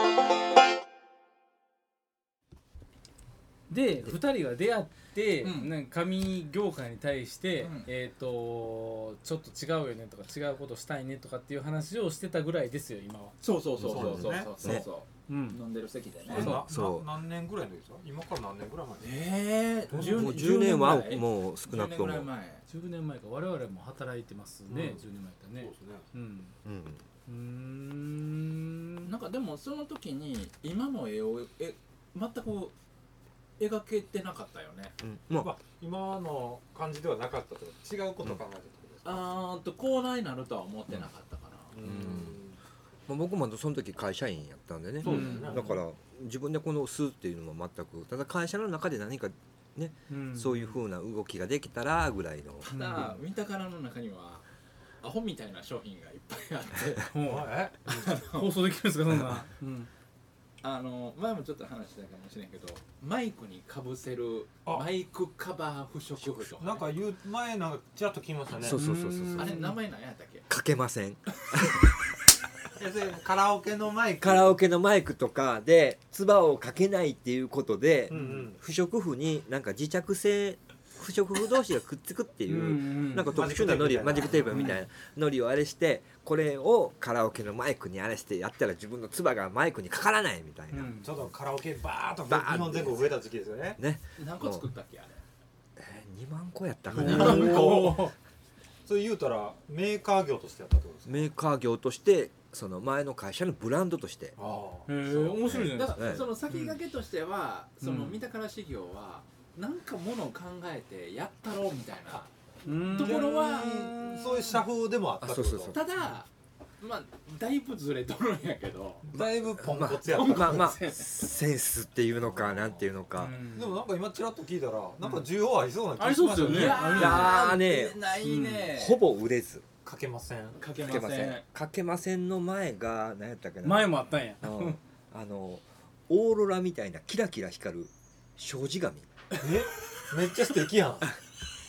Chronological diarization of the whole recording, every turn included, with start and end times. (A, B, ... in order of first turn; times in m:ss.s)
0:03.7-0:13.3 A
0:05.4-0:05.7 B
0:07.6-0:07.9 B
0:13.4-0:16.6 B
0:13.8-0:14.8 C
0:13.8-0:14.5 D
0:15.3-0:15.6 A
0:16.2-0:19.1 D
0:16.3-0:17.1 C
0:19.0-0:22.6 B
0:19.9-0:20.3 D
0:20.0-0:22.3 C
0:22.7-0:26.5 A
0:24.7-0:25.0 D
0:25.6-0:26.0 D
0:26.6-0:27.0 C
0:27.3-0:29.1 A
0:29.0-0:32.7 B
0:33.6-0:34.9 B
0:35.0-0:35.5 C
0:35.4-0:39.3 D
0:39.0-0:41.7 B
0:41.7-0:42.6 D
0:41.8-0:42.4 C
0:43.1-0:52.7 C
0:45.0-0:45.8 D
0:45.0-0:45.7 A
0:50.1-0:50.8 A
0:52.6-0:54.4 B
0:52.7-0:53.2 A
0:55.0-0:57.1 B
0:57.1-0:59.9 A
0:57.2-0:58.2 D
0:57.9-0:58.6 B
0:59.1-0:59.4 C
1:00.6-1:06.9 B
1:06.4-1:08.8 D
1:08.6-1:09.7 C
1:08.7-1:09.7 A
1:09.3-1:10.5 B
1:10.5-1:12.1 C
1:12.7-1:14.6 D
1:14.2-1:31.3 C
1:18.1-1:18.6 D
1:18.1-1:18.4 A
1:22.5-1:23.4 A
1:23.2-1:24.8 D
1:24.5-1:24.8 A
1:30.7-1:31.1 A
1:31.0-1:33.8 D
1:32.2-1:33.2 C
1:33.8-1:34.7 C
1:34.2-1:35.2 B
1:35.8-1:38.0 C
1:36.9-1:38.1 D
1:37.0-1:38.1 A
1:38.8-1:41.3 D
1:41.1-1:44.4 C
1:44.4-1:44.9 D
1:44.9-1:46.3 A
1:45.0-1:52.3 B
1:45.4-1:46.5 C
1:52.6-1:54.6 A
1:52.9-1:54.0 B
1:52.9-1:55.8 D
1:55.2-1:55.8 C
1:55.7-1:59.1 B
1:59.0-2:00.7 D
1:59.1-2:03.4 C
2:00.2-2:01.2 A
2:02.3-2:02.9 D
2:03.2-2:03.8 A
2:03.5-2:07.0 D
2:06.0-2:07.4 A
2:06.4-2:09.0 B
2:06.7-2:08.0 C
2:08.2-2:08.7 A
2:08.7-2:09.6 C
2:09.8-2:10.6 D
2:10.6-2:11.4 B
2:10.8-2:19.1 C
2:13.6-2:14.8 A
2:19.4-2:21.1 D